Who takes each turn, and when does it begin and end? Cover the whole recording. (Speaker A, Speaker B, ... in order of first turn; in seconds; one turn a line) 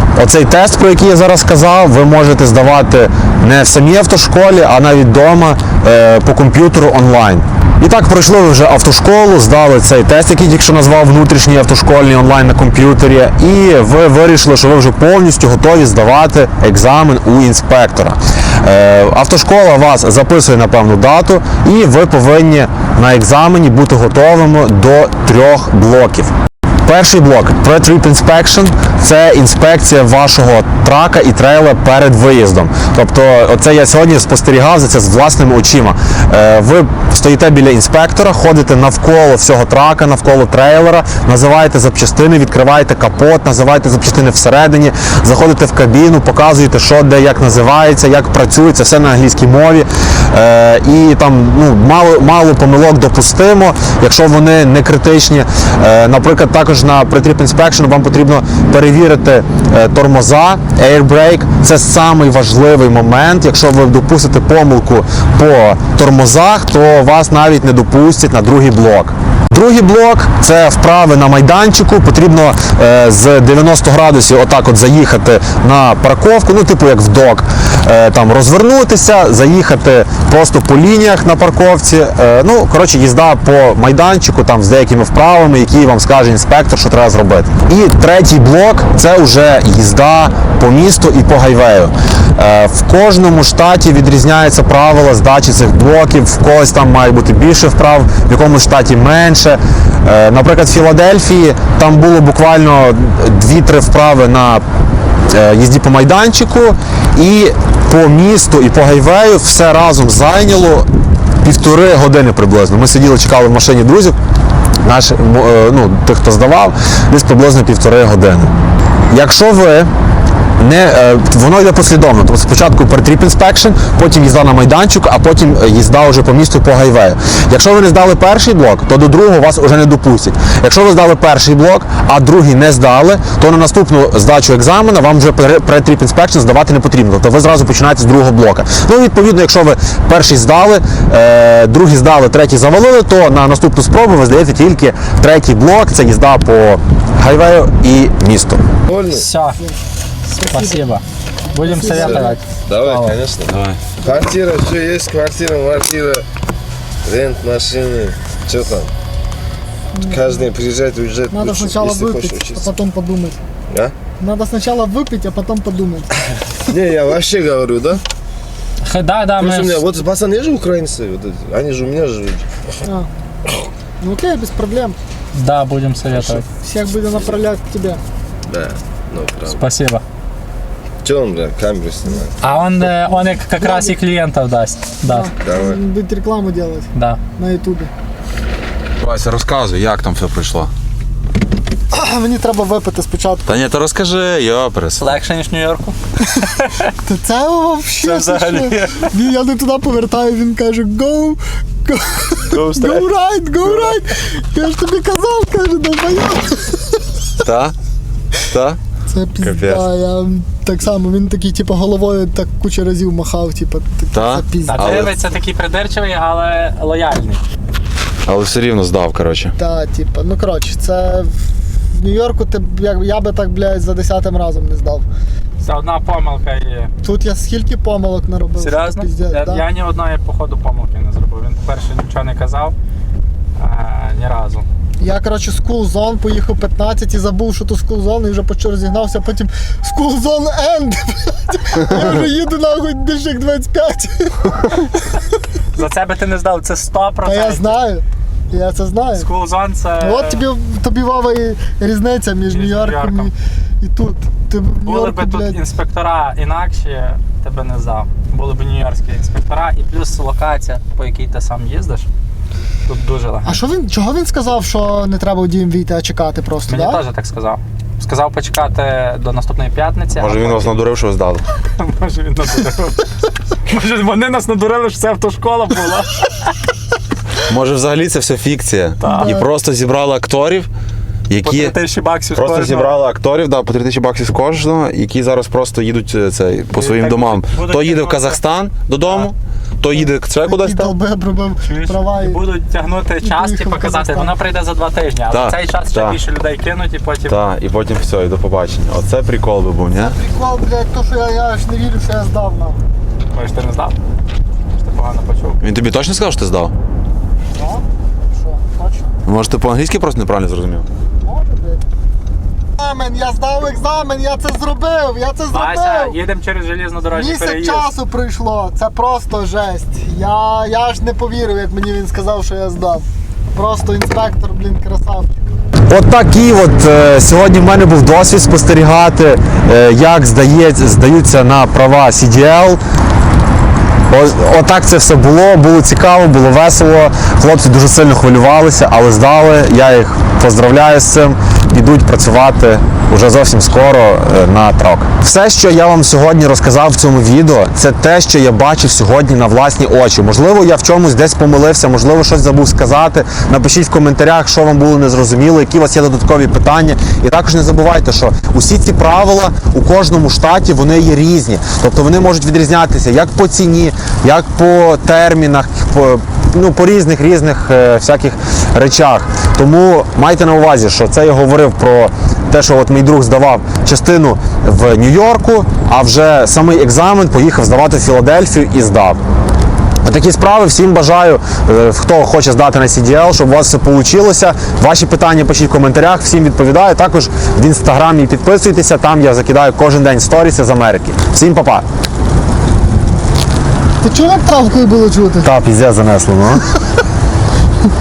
Speaker A: 0.2-26.3
Speaker A: 26.9-104.6
Speaker A: 105.3-110.9
Speaker A: 111.4-114.2
Speaker A: 114.8-118.5
Speaker A: 119.1-119.9
Speaker A: 120.6-148.6
Speaker B: 148.9-149.3
Speaker C: 149.1-149.6
Speaker C: 150.3-153.2
Speaker D: 150.3-151.0
Speaker D: 151.5-152.4
Speaker B: 151.9-156.2
Speaker E: 153.5-153.8
Speaker B: 157.1-158.9
Speaker D: 159.9-160.5
Speaker B: 160.1-162.7
Speaker D: 161.3-163.4
Speaker B: 163.7-164.0
Speaker D: 164.2-166.1
Speaker B: 166.7-168.0
Speaker C: 168.8-169.8
Speaker B: 169.4-172.8
Speaker D: 174.0-175.0
Speaker C: 175.3-176.5
Speaker B: 176.1-176.4
Speaker D: 176.6-178.0
Speaker B: 178.5-179.7
Speaker C: 179.5-180.0
Speaker B: 181.0-182.3
Speaker C: 182.4-185.3
Speaker D: 183.3-184.0
Speaker D: 185.0-187.9
Speaker B: 185.4-185.8
Speaker C: 186.9-187.2
Speaker E: 189.0-190.7
Speaker D: 191.9-193.6
Speaker E: 193.5-195.1
Speaker C: 195.0-196.9
Speaker D: 197.1-207.1
Speaker C: 198.0-199.1
Speaker E: 202.5-203.0
Speaker E: 207.4-207.7
Speaker E: 208.5-208.8
Speaker D: 209.1-214.9
Speaker E: 209.4-209.8
Speaker E: 214.1-215.2
Speaker C: 214.6-217.4
Speaker E: 218.3-219.5
Speaker D: 219.6-221.3
Speaker D: 221.9-225.1
Speaker C: 225.6-226.9
Speaker D: 227.0-229.7
Speaker C: 228.6-232.8
Speaker C: 233.6-234.7
Speaker D: 235.0-245.2
Speaker C: 245.7-247.8
Speaker D: 247.2-249.3
Speaker C: 249.2-250.4
Speaker D: 250.0-255.6
Speaker C: 252.4-253.3
Speaker C: 254.8-262.1
Speaker C: 262.9-263.6
Speaker D: 263.4-267.0
Speaker C: 266.7-270.8
Speaker E: 270.2-271.4
Speaker C: 271.8-273.1
Speaker C: 273.7-276.5
Speaker E: 277.5-280.7
Speaker C: 279.0-279.4
Speaker D: 279.0-279.5
Speaker E: 281.3-281.7
Speaker C: 281.4-283.0
Speaker E: 282.4-290.9
Speaker C: 286.8-288.4
Speaker C: 289.0-289.3
Speaker D: 289.9-292.4
Speaker C: 291.7-297.4
Speaker D: 293.2-294.3
Speaker E: 295.3-296.2
Speaker E: 297.3-300.2
Speaker D: 300.0-302.8
Speaker C: 303.3-304.0
Speaker C: 304.7-305.6
Speaker E: 305.6-306.7
Speaker D: 307.6-309.1
Speaker E: 309.3-310.9
Speaker D: 311.2-311.9
Speaker D: 312.8-316.2
Speaker C: 315.5-317.9
Speaker D: 317.1-325.3
Speaker A: 325.9-332.8
Speaker A: 334.1-379.2
Speaker A: 380.0-391.9
Speaker D: 394.0-395.5
Speaker A: 395.4-396.6